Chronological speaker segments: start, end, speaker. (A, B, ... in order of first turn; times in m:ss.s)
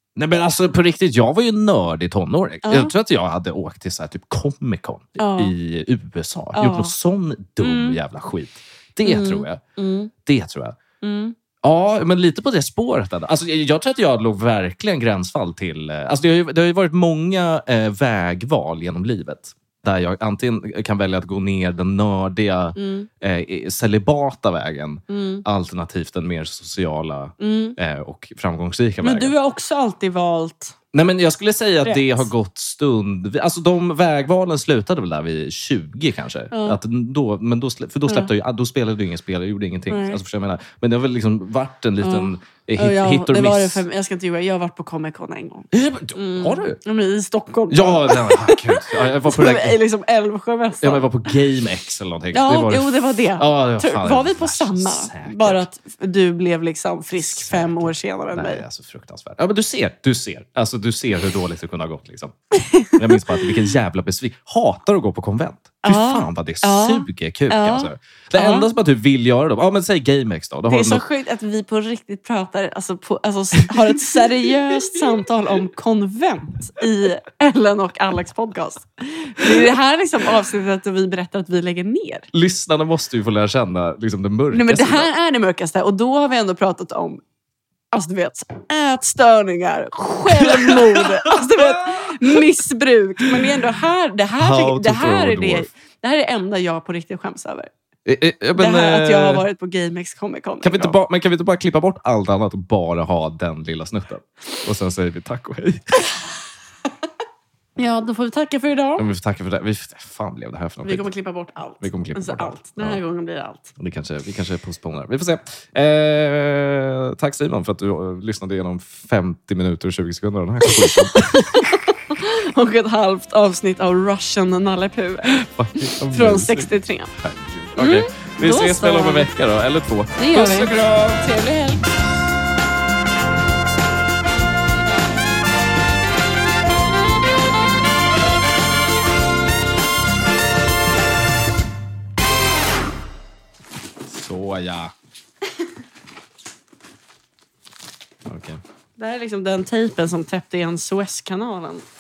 0:00.2-0:09.6 A
0:02.6-0:03.0 B
0:05.2-0:05.5 B
0:06.5-0:07.0 B
0:07.6-0:08.0 B
0:09.0-0:10.1 B
0:10.2-0:10.8 A
0:11.0-0:11.4 B
0:11.6-0:29.3 A
0:22.8-0:23.1 B
0:25.1-0:25.4 B
0:27.4-0:27.8 B
0:29.0-0:30.8 B
0:30.9-0:43.8 A
0:31.8-0:32.3 B
0:36.5-0:36.8 B
0:39.9-0:40.2 B
0:42.0-0:51.3 B
0:45.7-0:46.8 A
0:47.7-0:49.8 A
0:50.8-0:55.6 A
0:52.3-0:58.6 B
0:57.2-1:02.4 A
1:02.7-1:03.2 B
1:02.9-1:11.0 A
1:05.8-1:08.7 B
1:10.7-1:22.3 B
1:22.3-1:25.1 A
1:24.5-1:27.2 B
1:27.9-1:37.7 B
1:30.3-1:32.4 A
1:34.4-1:35.7 A
1:38.1-1:39.4 A
1:38.6-1:41.0 B
1:40.6-1:46.0 A
1:47.8-1:49.1 B
1:49.0-1:51.1 A
1:50.8-1:53.7 B
1:51.8-1:53.0 A
1:53.8-2:01.7 A
2:00.6-2:05.4 B
2:05.3-2:11.3 A
2:06.1-2:07.1 B
2:07.8-2:09.3 B
2:10.2-2:11.9 B
2:24.1-2:24.9 A
2:28.3-2:28.6 A
2:29.0-2:31.8 B